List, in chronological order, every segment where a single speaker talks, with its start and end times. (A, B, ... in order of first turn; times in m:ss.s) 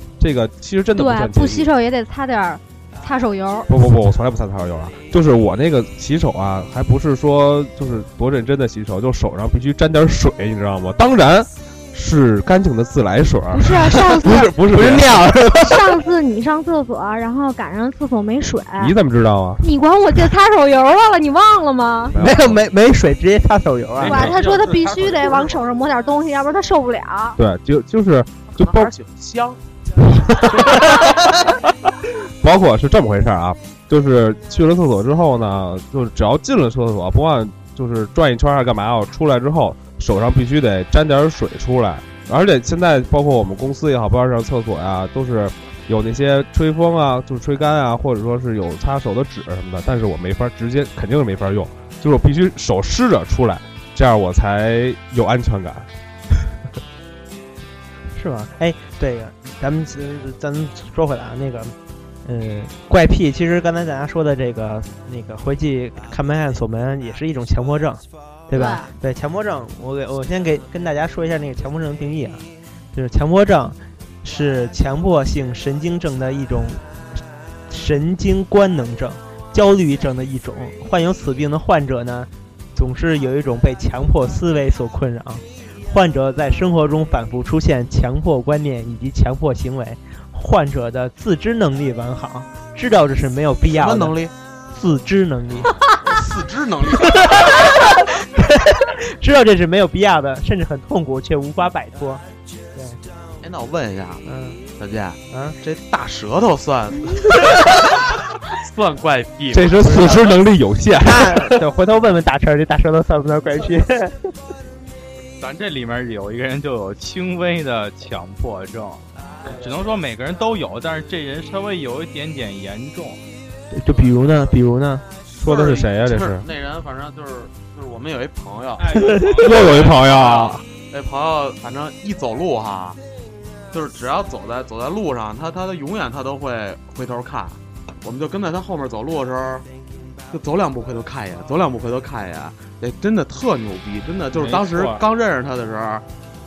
0:00.2-0:01.7 A
0:00.9-0:03.7 B
0:03.7-0:15.3 A
0:13.5-0:14.5 B
0:14.6-0:15.8 C
0:15.5-0:18.9 B
0:18.8-0:19.6 A
0:19.6-0:22.2 B
0:22.1-0:22.6 A
0:22.2-0:24.3 C
0:24.0-0:25.6 D
0:24.0-0:27.4 B
0:27.4-0:28.9 A
0:28.5-0:29.6 E
0:30.1-0:31.0 A
0:32.4-0:55.9 A
0:58.1-1:01.7 C
1:02.2-1:16.8 C
1:08.5-1:08.9 B
1:17.7-1:34.1 C
1:33.7-1:34.3 E
1:34.7-1:35.8 C
1:36.0-1:37.8 E
1:37.0-1:42.2 C
1:42.7-1:43.0 C
1:43.4-1:44.2 E
1:44.2-1:44.6 C
1:44.8-1:48.0 E
1:48.5-1:50.4 E
1:49.5-1:51.5 A
1:51.0-1:54.3 C
1:55.4-2:03.2 D
2:03.7-2:05.0 C
2:05.4-2:13.0 E
2:05.4-2:06.5 A
2:08.8-2:10.0 D
2:08.9-2:09.4 C
2:09.4-2:10.6 A
2:13.7-2:19.6 E
2:20.3-2:26.0 E
2:24.3-2:25.0 D